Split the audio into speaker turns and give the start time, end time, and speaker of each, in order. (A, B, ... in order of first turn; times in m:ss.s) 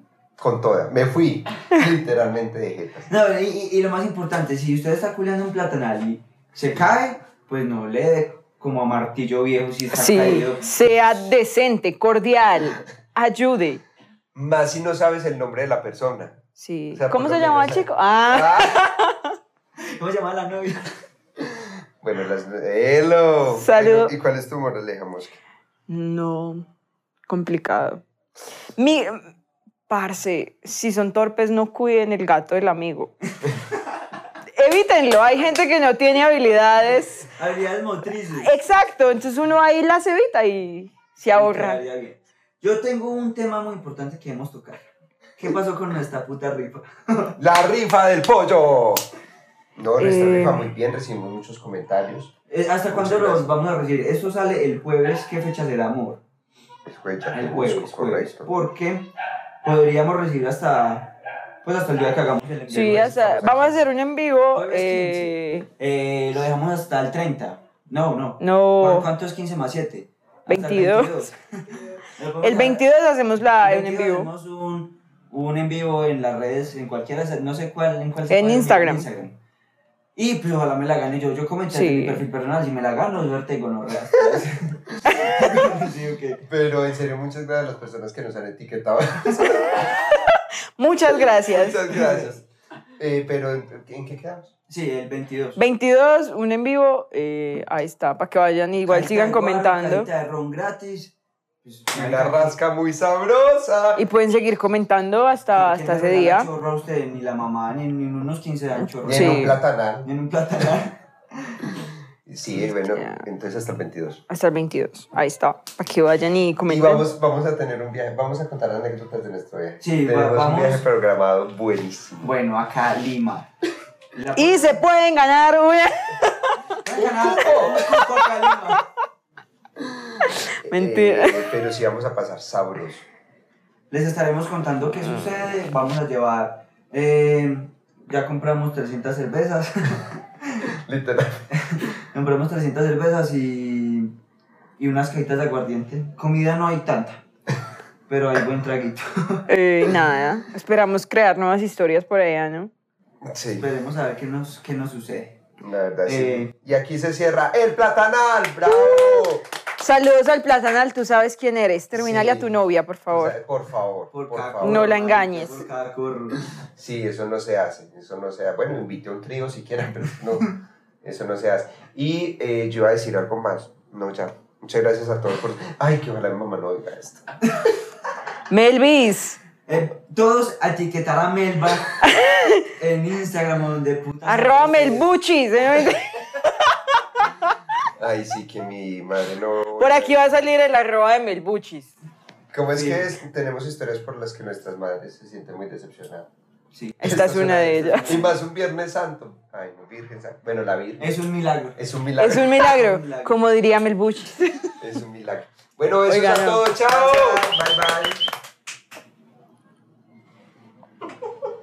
0:00.4-0:03.1 A
0:03.1-0:10.7 B
0:09.9-0:13.8 C
0:14.4-0:16.4 A
0:16.6-0:19.2 C
0:16.9-0:18.8 A
0:19.9-0:20.9 B
0:21.5-0:25.4 A
0:23.5-0:24.1 C
0:25.9-0:26.7 C
0:27.3-0:28.0 C
0:28.8-0:29.2 C
0:29.9-0:33.1 C
0:34.6-0:37.3 C
0:37.3-0:38.5 B
0:38.2-0:41.8 C
0:41.3-0:47.4 B
0:47.4-0:49.1 A
0:49.8-0:52.3 A
0:50.0-0:50.6 C
0:52.5-0:56.2 B
0:52.9-0:53.5 A
0:56.9-0:58.5 A
0:57.3-1:03.5 B
1:02.7-1:05.7 C
1:02.8-1:03.8 A
1:04.5-1:12.8 B
1:08.4-1:09.1 C
1:10.5-1:11.3 C
1:12.4-1:14.3 C
1:13.6-1:19.4 B
1:18.3-1:19.1 C
1:20.2-1:26.4 B
1:21.7-1:22.2 C
1:26.5-1:29.9 A
1:30.8-1:32.2 C
1:31.4-1:32.5 A
1:33.0-1:34.5 A
1:34.7-1:35.6 B
1:35.6-1:40.1 C
1:38.9-1:42.6 B
1:41.9-1:44.0 A
1:44.0-1:46.5 C
1:45.5-1:51.7 B
1:49.0-1:50.1 A
1:49.0-1:49.6 C
1:52.3-1:54.2 A
1:52.6-1:53.2 C
1:54.3-1:57.1 C
1:56.7-2:02.3 A
1:59.8-2:00.9 B
2:02.2-2:03.5 B
2:04.1-2:04.8 B
2:04.4-2:06.6 C
2:06.8-2:08.9 B
2:07.0-2:07.8 A
2:10.2-2:13.1 A
2:10.7-2:11.5 C
2:13.9-2:20.2 B
2:20.8-2:21.3 A
2:21.5-2:24.1 B
2:24.8-2:27.2 B
2:28.1-2:29.4 B
2:29.5-2:32.7 C
2:33.2-2:33.7 A
2:33.5-2:35.4 B
2:35.6-2:39.5 A
2:36.0-2:36.5 B
2:38.7-2:43.4 C
2:41.9-2:42.5 A
2:43.1-2:45.0 A
2:44.1-2:46.5 B
2:44.6-2:45.7 C
2:46.8-2:50.5 A
2:51.0-2:57.2 A
2:58.5-2:59.4 C
2:59.7-3:02.0 B
3:02.0-3:02.6 C
3:02.8-3:05.1 B
3:04.2-3:06.0 C
3:08.0-3:10.2 A
3:09.8-3:11.9 C
3:12.5-3:16.3 A
3:12.7-3:13.1 B
3:16.7-3:17.0 B
3:17.0-3:18.2 C
3:17.0-3:21.2 A
3:17.8-3:18.4 B
3:21.0-3:21.8 B
3:21.8-3:22.6 A
3:22.2-3:24.7 C
3:22.6-3:23.4 B
3:24.8-3:28.2 A
3:26.1-3:26.6 C
3:26.9-3:27.6 B